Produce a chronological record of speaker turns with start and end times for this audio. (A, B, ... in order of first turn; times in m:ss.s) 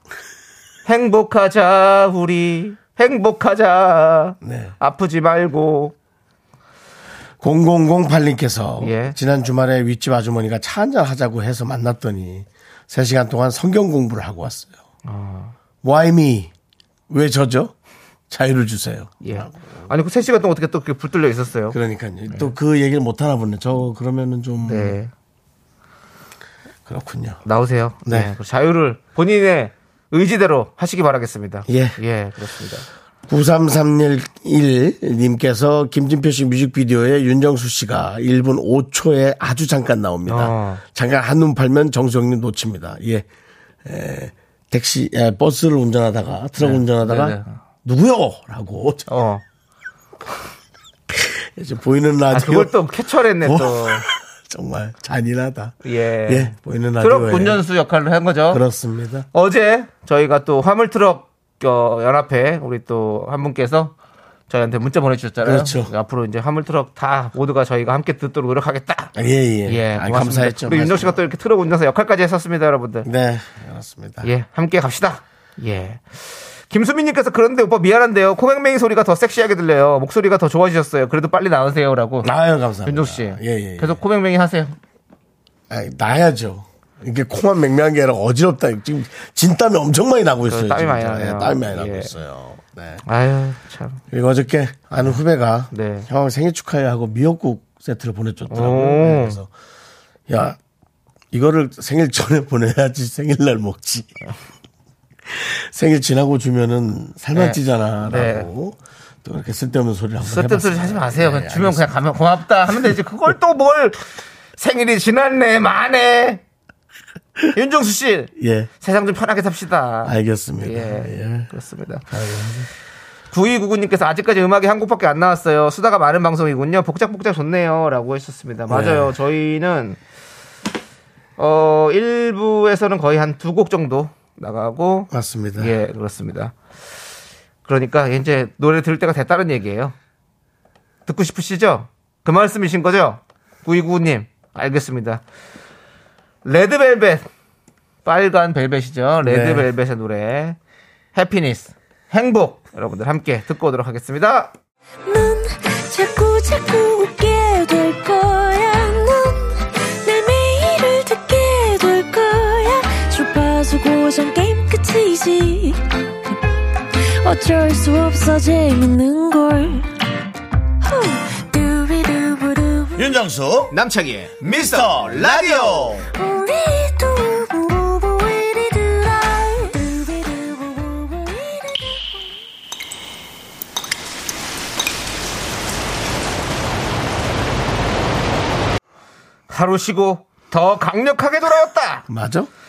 0:00.9-0:06.0 A
0:04.4-0:04.7 B
0:07.4-0:14.7 B
0:08.8-0:09.2 A
0:15.0-0:15.5 A
0:15.8-0:16.5 B
0:17.1-0:17.7 B
0:18.3-0:19.5 B
0:19.2-0:21.8 A
0:21.7-0:25.0 B
0:24.6-0:25.1 A
0:26.9-0:27.4 B
0:27.4-0:32.9 A
0:28.1-0:28.3 B
0:31.7-0:32.0 B
0:33.3-0:43.3 B
0:40.3-0:40.8 A
0:43.8-0:49.1 B
0:46.6-0:47.6 A
0:49.1-0:49.4 A
0:51.1-0:52.7 B
0:52.3-0:54.1 A
0:53.4-0:57.6 B
0:55.8-0:58.6 A
0:58.5-0:59.3 B
0:59.3-1:03.9 A
1:04.5-1:09.1 A
1:05.4-1:05.9 B
1:09.2-1:11.2 B
1:09.7-1:13.1 A
1:13.0-1:14.3 B
1:14.2-1:22.3 A
1:22.2-1:24.0 B
1:22.8-1:24.8 A
1:25.7-1:33.0 B
1:30.5-1:32.1 A
1:33.1-1:34.0 A
1:34.1-1:39.5 B
1:35.7-1:36.1 A
1:38.5-1:39.4 A
1:40.3-1:40.6 B
1:41.3-1:44.2 B
1:45.3-1:51.9 B
1:47.3-1:48.5 A
1:50.2-1:54.0 A
1:54.6-1:56.4 A
1:57.5-2:02.1 A
1:58.4-1:58.7 B
2:00.0-2:01.5 B
2:02.1-2:02.7 B
2:03.3-2:10.0 A
2:08.7-2:09.1 B
2:11.4-2:16.5 A
2:15.1-2:15.7 B
2:17.6-2:20.0 A
2:21.1-2:25.2 A
2:26.4-2:27.2 A
2:28.0-2:30.6 A
2:29.2-2:29.7 B
2:31.2-2:34.5 A
2:35.1-2:46.4 C
2:47.0-2:49.9 C
2:50.8-2:53.2 C
2:53.0-2:53.7 B
2:53.7-2:55.9 A
2:54.4-2:56.1 B
2:56.1-3:02.2 C
3:09.5-3:12.1 A
3:12.1-3:12.5 B